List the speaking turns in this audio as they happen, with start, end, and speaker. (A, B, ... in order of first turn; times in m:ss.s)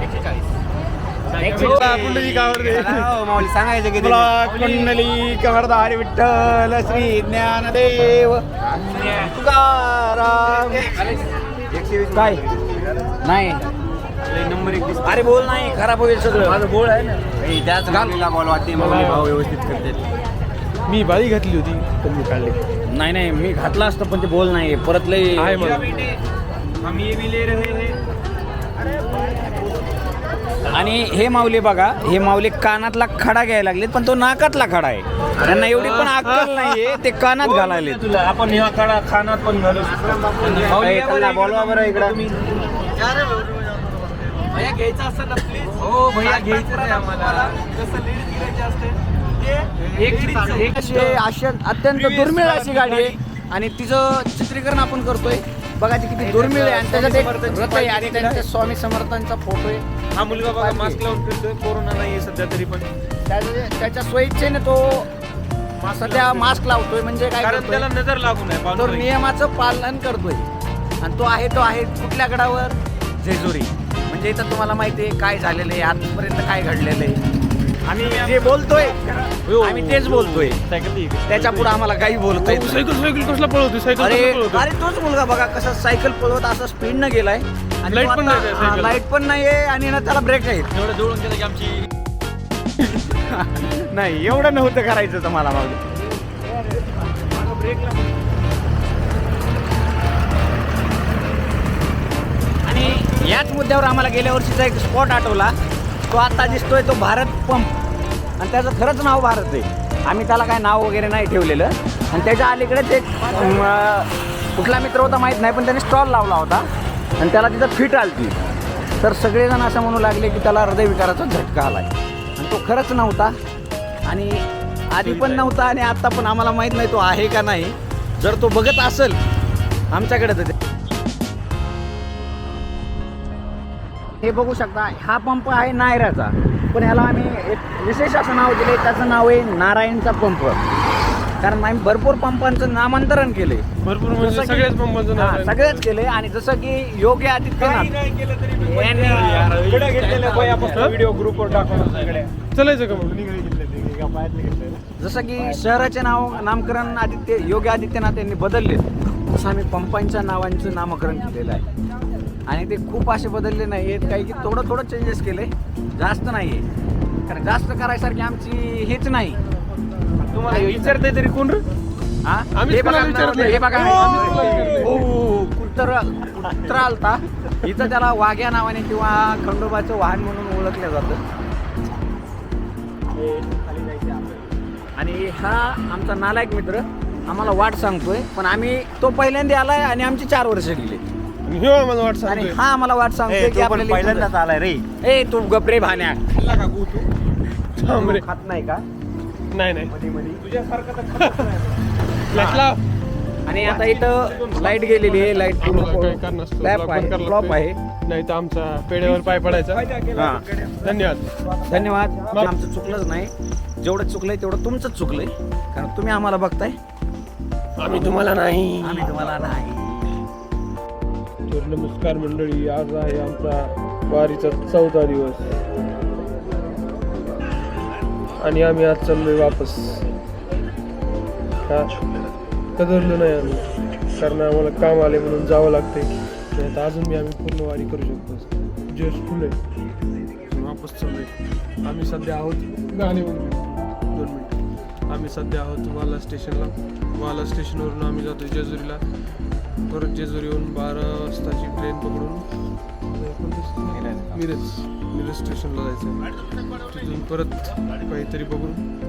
0:01.3-0:02.9 A
0:01.4-0:03.0 B
0:01.4-0:04.9 C
0:01.6-0:03.1 D
0:03.9-0:08.4 B
0:08.7-0:09.3 C
0:09.1-0:11.1 B
0:10.8-0:13.0 C
0:12.1-0:12.4 B
0:13.2-0:13.7 B
0:14.3-0:15.4 C
0:15.0-0:16.6 B
0:16.4-0:20.0 C
0:17.8-0:18.2 B
0:18.7-0:19.3 D
0:20.9-0:22.6 D
0:22.9-0:25.9 B
0:25.4-0:26.0 D
0:25.6-0:26.1 C
0:26.8-0:28.0 C
0:30.7-0:38.0 B
0:35.4-0:36.1 C
0:35.9-0:36.9 D
0:37.4-0:51.2 C
0:40.4-0:42.1 B
0:40.7-0:41.2 A
0:41.8-0:42.1 A
0:45.6-0:47.6 A
0:50.0-1:01.0 B
0:50.0-0:50.7 A
0:51.9-0:53.2 C
0:56.2-0:58.4 C
1:00.1-1:02.9 C
1:03.3-1:05.1 B
1:05.8-1:06.6 C
1:05.9-1:07.9 B
1:07.4-1:09.1 C
1:08.7-1:10.4 B
1:11.0-1:17.2 B
1:17.8-1:19.5 C
1:17.9-1:19.0 B
1:19.5-1:21.7 A
1:19.6-1:20.6 B
1:20.0-1:20.6 C
1:21.3-1:22.8 B
1:22.3-1:24.7 D
1:23.9-1:30.7 B
1:27.8-1:29.0 D
1:30.7-1:31.9 A
1:32.8-1:35.9 B
1:37.3-1:37.9 C
1:42.6-1:45.5 B
1:46.1-1:47.7 B
1:48.4-1:56.7 B
1:57.2-1:58.4 B
1:59.0-2:03.4 B
2:04.1-2:09.2 B
2:05.0-2:05.5 D
2:09.9-2:10.5 B
2:14.2-2:20.6 B
2:21.4-2:23.6 B
2:23.8-2:25.8 D
2:24.2-2:27.9 B
2:27.6-2:32.3 C
2:28.6-2:29.6 B
2:28.9-2:32.2 A
2:30.7-2:31.0 D
2:32.5-2:33.2 D
2:33.0-2:34.8 C
2:35.0-2:41.6 B
2:42.5-2:46.6 B
2:47.3-2:49.4 B
2:50.2-2:51.0 D
2:50.5-2:51.6 C
2:50.5-2:51.1 B
2:52.2-3:01.2 B
2:52.5-2:55.1 D
2:54.5-2:54.9 C
3:03.2-3:04.5 C
3:05.0-3:11.0 B
3:11.4-3:12.6 D
3:12.2-3:14.3 B
3:13.3-3:14.8 C
3:15.0-3:16.2 B
3:16.2-3:17.1 C
3:17.8-3:18.2 D
3:18.0-3:18.8 C
3:19.5-3:19.9 D
3:19.9-3:21.8 C
3:21.2-3:21.5 D
3:22.3-3:22.8 D
3:22.3-3:22.6 B
3:23.4-3:27.8 B
3:23.6-3:25.2 C
3:24.7-3:29.8 D
3:29.0-3:32.2 C
3:30.1-3:30.4 B
3:30.8-3:31.3 D
3:31.7-3:36.8 B
3:37.8-3:39.5 D
3:38.8-3:40.1 B
3:41.5-3:45.5 D
3:48.4-3:50.1 D
3:51.7-3:52.0 D
3:52.8-3:59.6 D
4:00.5-4:01.3 D
4:01.8-4:09.0 D
4:09.9-4:12.5 D
4:13.0-4:16.3 D
4:13.9-4:14.4 C
4:16.8-4:18.8 D